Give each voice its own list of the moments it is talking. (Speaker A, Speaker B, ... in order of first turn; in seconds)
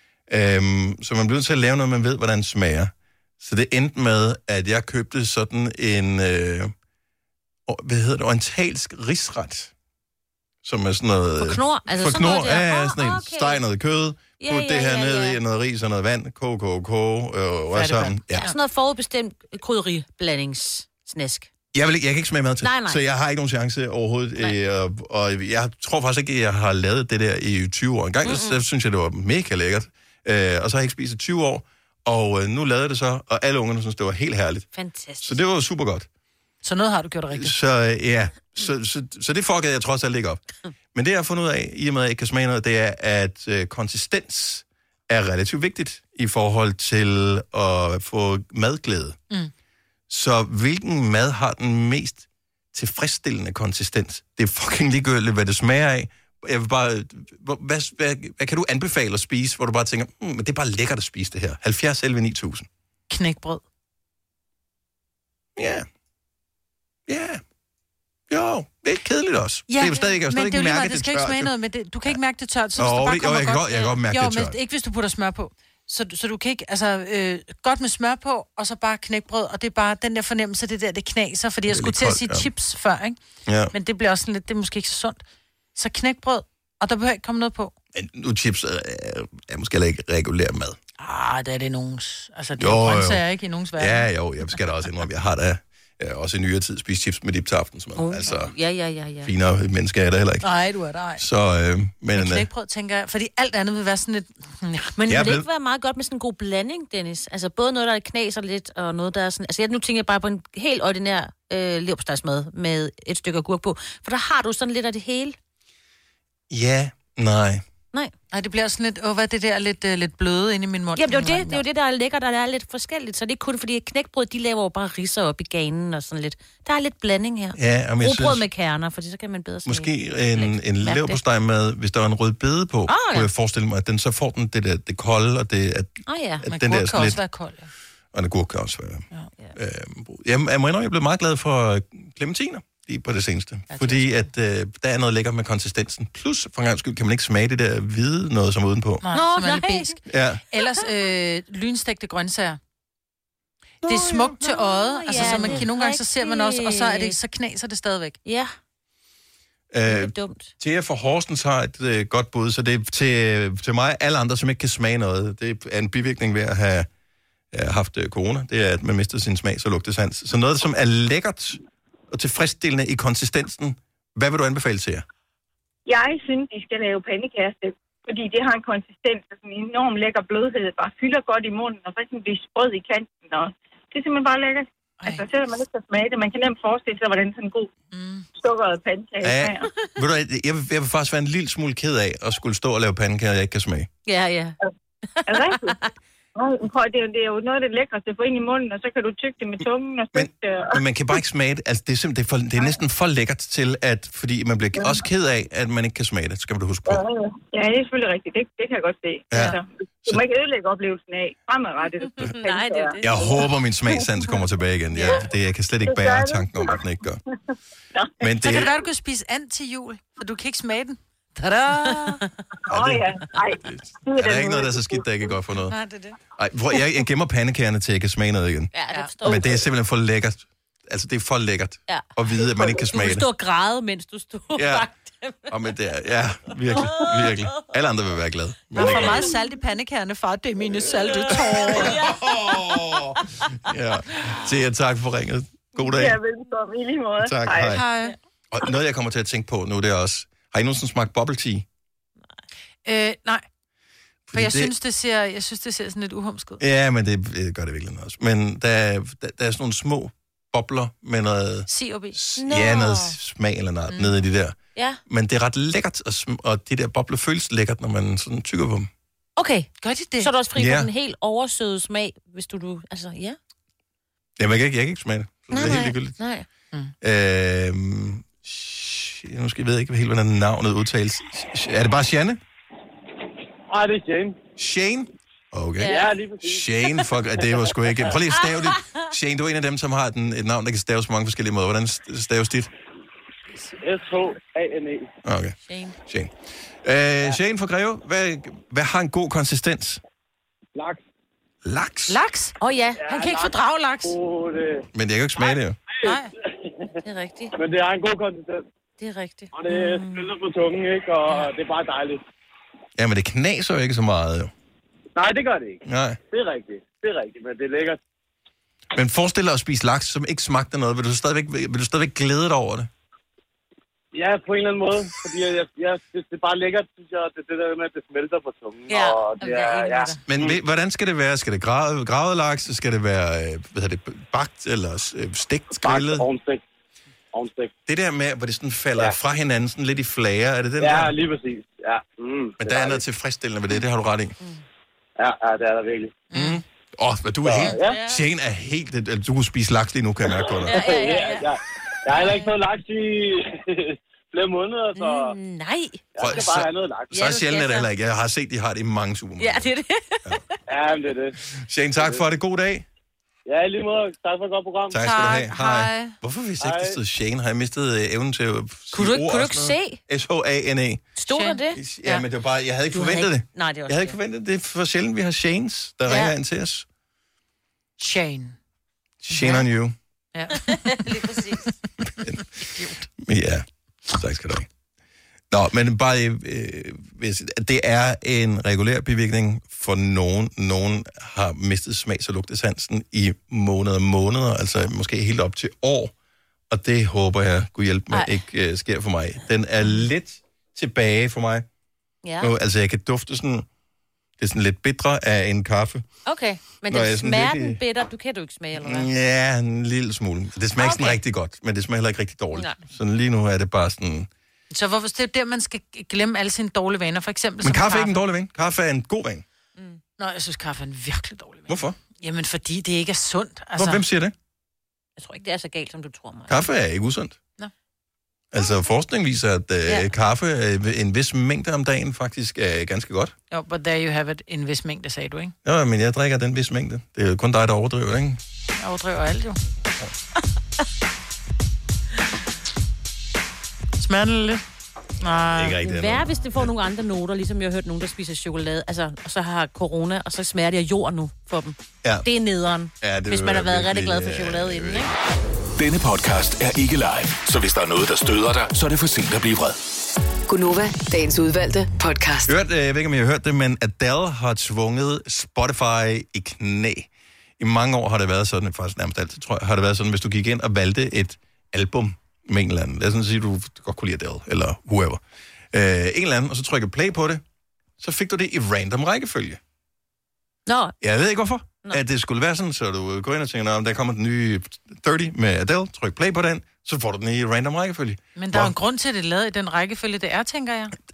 Speaker A: 0.3-6.7, 7.7-9.7, 10.6-18.5, 21.7-34.7, 35.2-36.1, 37.3-40.4, 40.9-49.2, 50.1-62.7, 65.6-65.9, 67.1-67.4, 68.3-71.5, 72.8-74.6, 81.7-82.5, 83.5-83.7, 87.9-90.8, 92.6-93.2, 93.8-98.5, 99.2-100.5, 101.2-102.5, 105.1-105.5, 116.5-117.6, 127.5-128.5, 129.7-137.2, 138.1-149.0, 150.1-150.4, 155.1-155.7, 159.7-166.9, 167.5-171.6, 172.1-175.0, 189.2-193.9, 200.2-207.0, 209.3-210.2, 213.0-217.2, 218.2-218.7, 222.7-223.0, 223.6-225.8, 226.4-228.7, 229.2-233.3, 234.6-234.9, 235.5-239.3, 241.3-246.2, 247.2-247.8, 248.5-251.7, 254.3-254.7, 256.6-264.6, 265.1-268.9, 270.6-270.9, 274.4-276.2, 277.0-282.4, 284.6-292.7, 295.2-300.0, 301.6-302.2, 304.9-305.8, 313.0-314.5, 315.9-316.2, 318.9-322.9, 330.3-336.3, 337.9-341.1, 342.6-344.3, 346.3-351.1, 356.2-359.7, 361.5-362.9, 364.9-371.1, 371.8-376.9, 379.2-379.9, 383.2-384.7, 385.5-396.1, 396.7-401.7, 402.4-403.7, 404.4-406.0, 406.9-407.8, 408.8-414.3, 417.6-419.4, 421.7-422.0, 423.8-424.3, 426.5-427.4, 428.5-433.3, 435.6-438.4, 445.5-446.7, 453.0-455.1, 462.5-475.2, 475.7-477.4, 478.0-479.6, 481.0-488.7
Speaker B: 11.4-13.6, 14.4-15.4, 18.4-21.5, 22.6-23.0, 28.2-28.6, 34.7-35.4, 98.0-99.3, 105.0-115.4, 121.0-131.2, 132.9-133.3, 136.1-136.4, 149.1-150.0, 153.9-157.2, 158.2-158.5, 159.9-160.5, 194.1-194.6, 195.2-195.9, 212.2-213.4, 214.9-215.2, 221.8-222.2, 228.7-229.6, 231.9-235.5, 236.7-237.6, 238.8-239.2, 240.9-243.0, 262.4-263.2, 264.8-265.0, 269.4-273.4, 275.5-276.5, 285.8-286.1, 288.4-288.7, 295.7-296.0, 302.6-303.3, 307.0-307.5, 309.0-310.3, 328.9-330.2, 347.6-348.2, 350.7-351.5, 352.1-352.5, 354.9-356.4, 357.1-357.9, 359.4-360.4, 368.9-370.0, 371.2-371.8, 372.9-374.2, 376.1-376.3, 380.7-381.7, 402.2-402.5, 406.3-409.1, 410.8-411.2, 425.2-426.6, 445.8-455.1, 480.7-480.9
Speaker C: 17.7-18.2, 36.6-37.5, 63.1-63.6, 69.7-83.2, 83.7-85.2, 85.8-87.7, 91.0-94.1, 100.4-101.2, 102.2-105.0, 118.3-121.6, 136.5-137.7, 143.7-144.2, 149.0-152.6, 153.8-158.2, 185.0-185.3, 187.9-188.3, 218.4-222.3, 225.7-226.2, 238.8-242.0, 247.7-248.2, 252.9-253.4, 254.3-256.6, 261.7-262.2, 269.8-270.3, 302.1-302.6, 303.1-304.2, 306.0-306.3, 346.3-346.6, 365.0-366.2, 371.3-372.2, 378.0-378.6, 379.3-379.6, 380.3-381.1, 382.6-383.0, 414.7-418.2, 420.2-424.0, 433.5-435.5, 438.8-439.6, 444.0-444.6, 445.2-445.8, 488.4-490.9
Speaker D: 175.9-187.7, 188.4-189.7, 195.3-195.8, 196.4-200.8, 206.9-213.2, 215.9-216.7, 217.9-218.5, 222.7-225.1, 245.9-247.8
Speaker E: 283.7-284.4, 285.8-286.7, 293.8-295.1, 300.8-301.0, 303.0-304.9, 305.9-306.2, 307.6-308.6, 309.5-312.2, 315.2-318.0, 324.1-330.6, 335.8-336.6, 337.3-337.7, 340.8-343.0, 345.2-346.2, 347.4-348.0, 350.4-355.4, 356.1-357.2, 360.7-361.4, 362.0-362.2, 363.5-365.0, 366.6-367.0
Speaker F: 455.8-459.8
Speaker G: 460.5-462.5